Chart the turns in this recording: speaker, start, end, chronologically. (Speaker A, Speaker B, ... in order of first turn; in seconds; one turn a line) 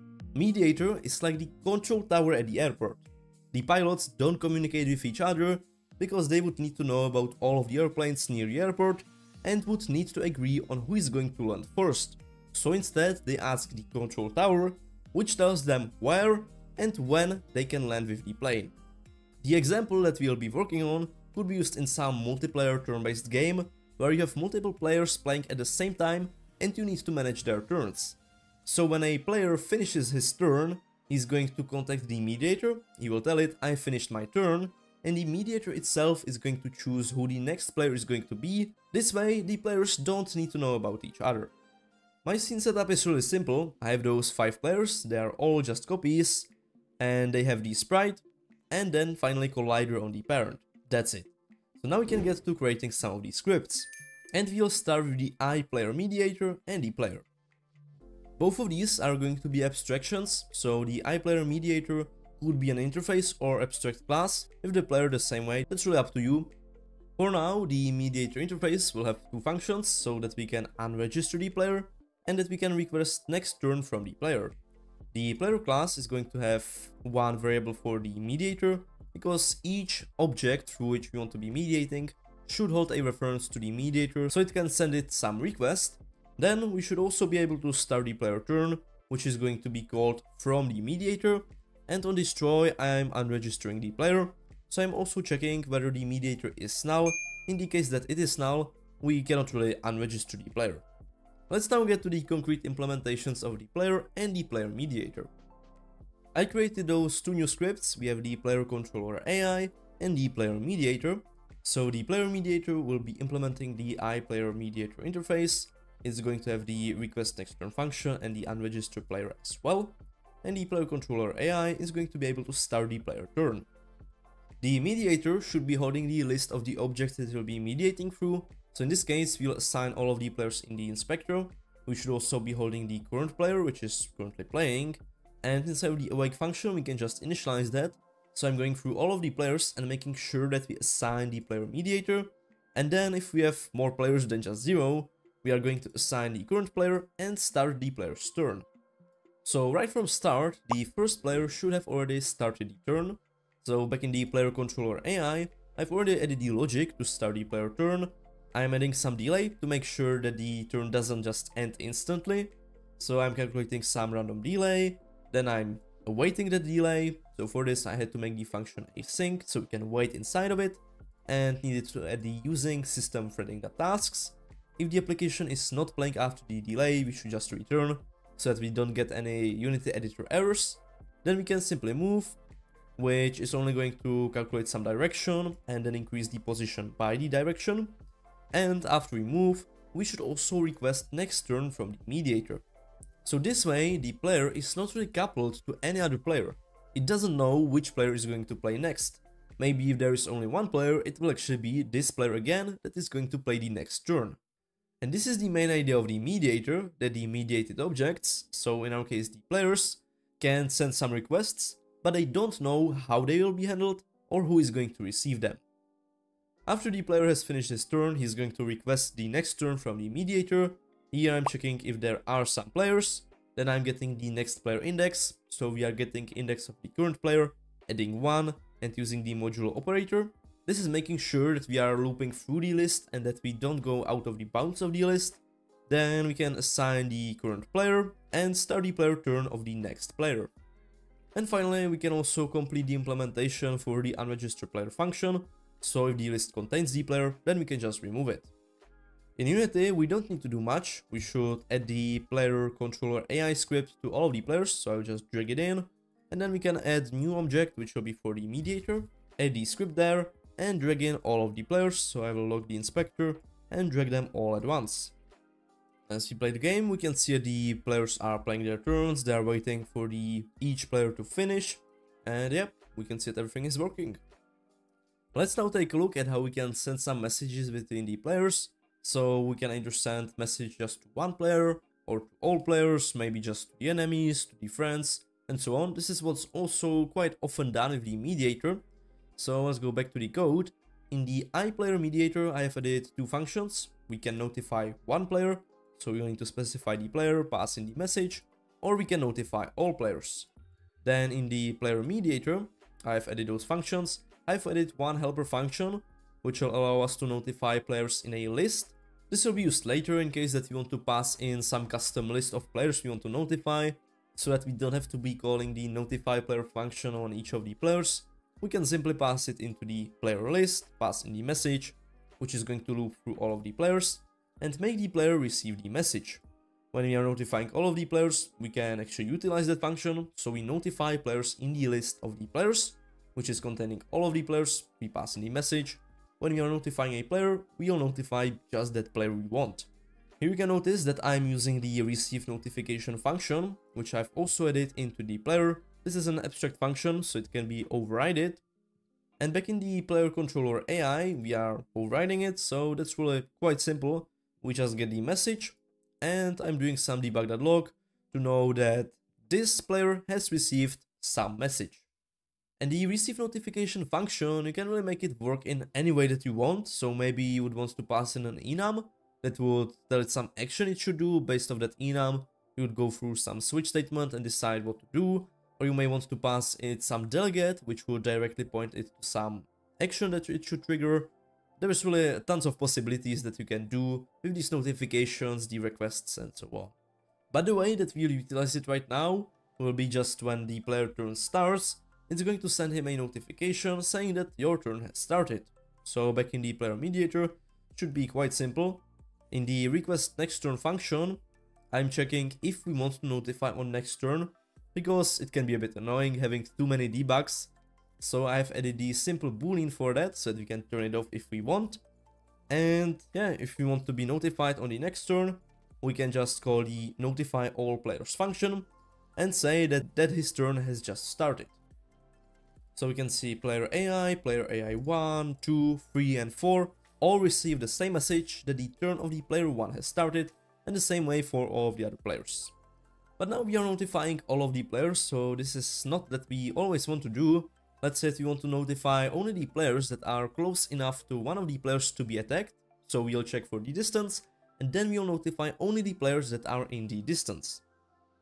Speaker A: 0.3-18.8
Speaker A: 19.4-41.5
Speaker A: 42.2-57.2
Speaker A: 58.4-66.5
Speaker A: 67.2-74.6
Speaker A: 75.1-100.8
Speaker A: 101.5-105.3
Speaker A: 106.3-123.7
Speaker A: 124.6-148.7
Speaker A: 149.4-182.4
Speaker A: 183.0-188.0
Speaker A: 188.5-192.6
Speaker A: 193.2-204.4
Speaker A: 205.0-215.6
Speaker A: 216.7-240.5
Speaker A: 241.3-248.5
Speaker A: 249.4-265.1
Speaker A: 266.1-274.2
Speaker A: 275.3-288.8
Speaker A: 289.4-300.5
Speaker A: 301.0-326.4
Speaker A: 326.9-339.9
Speaker A: 340.4-348.6
Speaker A: 349.4-362.1
Speaker A: 362.8-386.9
Speaker A: 387.5-412.0
Speaker A: 412.7-421.8
Speaker A: 422.9-432.7
Speaker A: 433.4-447.8